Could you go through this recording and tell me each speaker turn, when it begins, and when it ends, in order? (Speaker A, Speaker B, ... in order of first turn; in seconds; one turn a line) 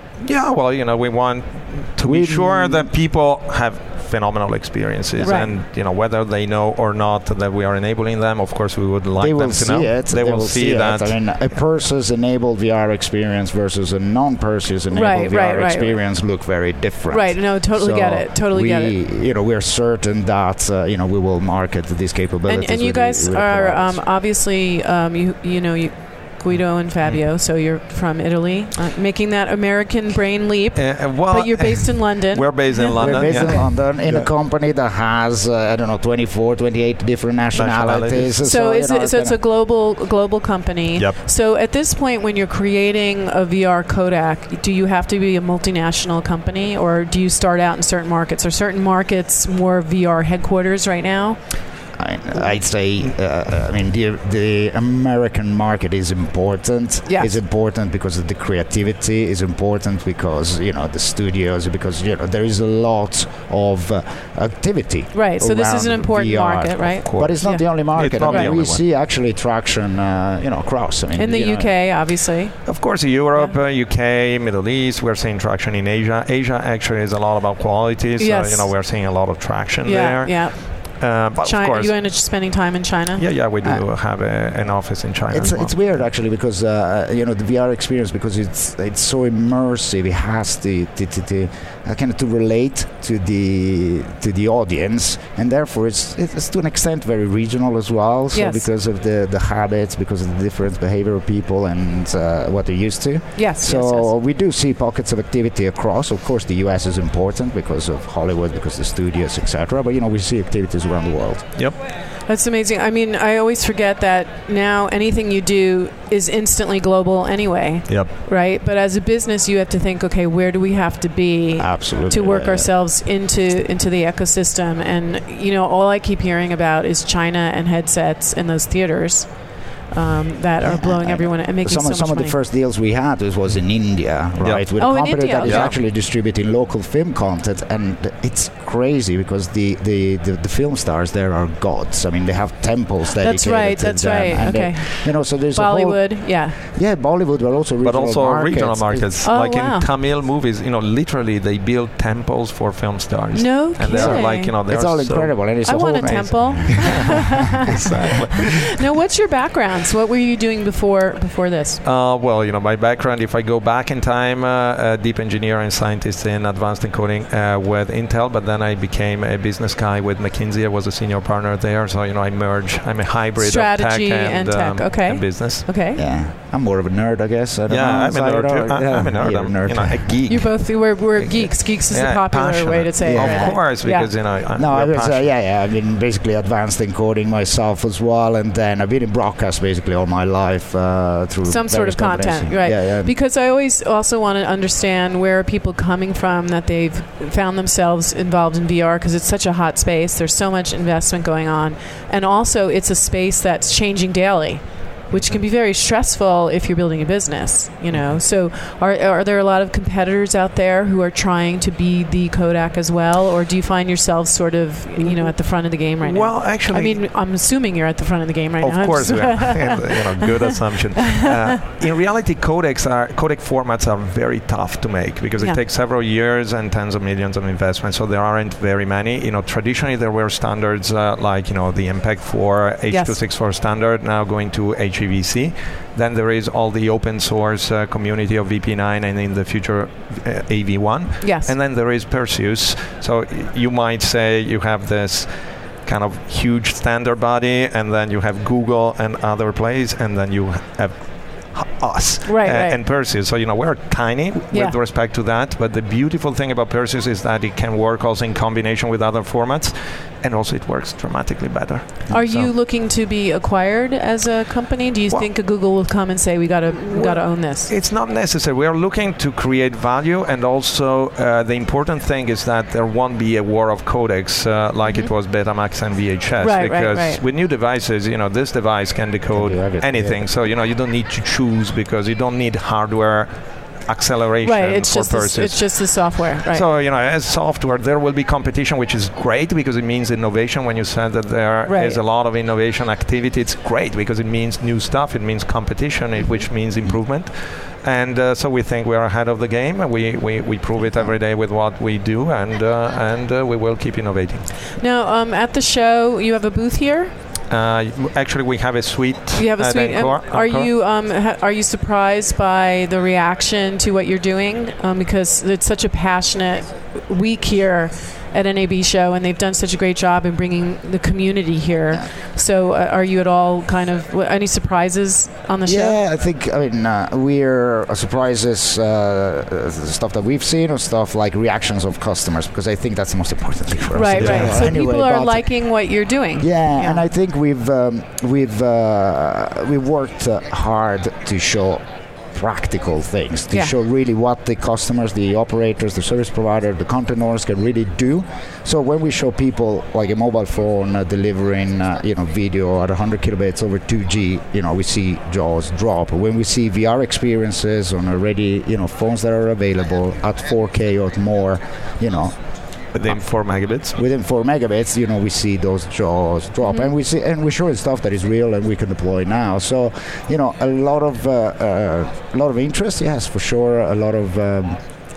Speaker A: 0.2-11.4
Speaker B: 2.0-2.9
Speaker C: 5.2-5.5
Speaker B: 9.2-24.0
Speaker C: 14.9-16.0
Speaker C: 17.1-19.0
Speaker C: 22.5-33.6
Speaker A: 30.8-34.3
Speaker B: 33.0-39.4
Speaker A: 37.5-38.4
Speaker C: 38.4-51.4
Speaker B: 52.0-71.7
Speaker C: 57.1-57.4
Speaker C: 65.1-67.7
Speaker A: 67.0-68.8
Speaker C: 68.3-68.5
Speaker C: 71.2-72.6
Speaker A: 72.7-80.5
Speaker C: 78.2-78.7
Speaker C: 79.8-80.6
Speaker A: 81.0-81.9
Speaker C: 81.4-83.2
Speaker A: 83.2-85.8
Speaker B: 85.3-111.4
Speaker C: 98.3-98.7
Speaker C: 103.4-104.1
Speaker C: 112.3-129.3
Speaker B: 121.6-122.7
Speaker C: 129.9-132.4
Speaker B: 130.6-149.2
Speaker A: 134.4-134.7
Speaker C: 134.8-135.8
Speaker A: 135.4-135.7
Speaker C: 143.2-146.6
Speaker A: 147.8-155.5
Speaker C: 149.2-149.9
Speaker C: 153.3-154.6
Speaker B: 153.9-158.0
Speaker C: 155.6-161.8
Speaker A: 156.7-158.7
Speaker A: 161.8-175.7
Speaker C: 173.4-176.0
Speaker B: 175.9-180.1
Speaker A: 177.7-185.3
Speaker C: 180.3-184.1
Speaker B: 183.0-183.7
Speaker B: 184.6-193.1
Speaker C: 191.5-220.4
Speaker A: 215.0-215.3
Speaker A: 216.0-217.0
Speaker A: 218.6-245.3
Speaker C: 232.9-233.2
Speaker C: 241.2-241.5
Speaker A: 245.8-251.0
Speaker A: 251.5-262.5
Speaker C: 252.2-252.8
Speaker C: 262.1-267.7
Speaker A: 266.9-283.3
Speaker C: 274.8-275.1
Speaker C: 276.4-277.2
Speaker B: 279.3-280.3
Speaker A: 283.9-285.8
Speaker C: 284.4-286.6
Speaker A: 286.5-297.3
Speaker C: 291.7-292.0
Speaker A: 297.8-304.5
Speaker C: 304.8-307.1
Speaker A: 307.5-310.7
Speaker C: 309.4-326.0
Speaker B: 325.7-335.5
Speaker C: 333.9-337.1
Speaker A: 334.2-334.6
Speaker B: 336.4-341.8
Speaker B: 342.3-362.3
Speaker C: 343.5-343.8
Speaker A: 362.9-364.0
Speaker B: 364.0-374.8
Speaker C: 366.6-366.9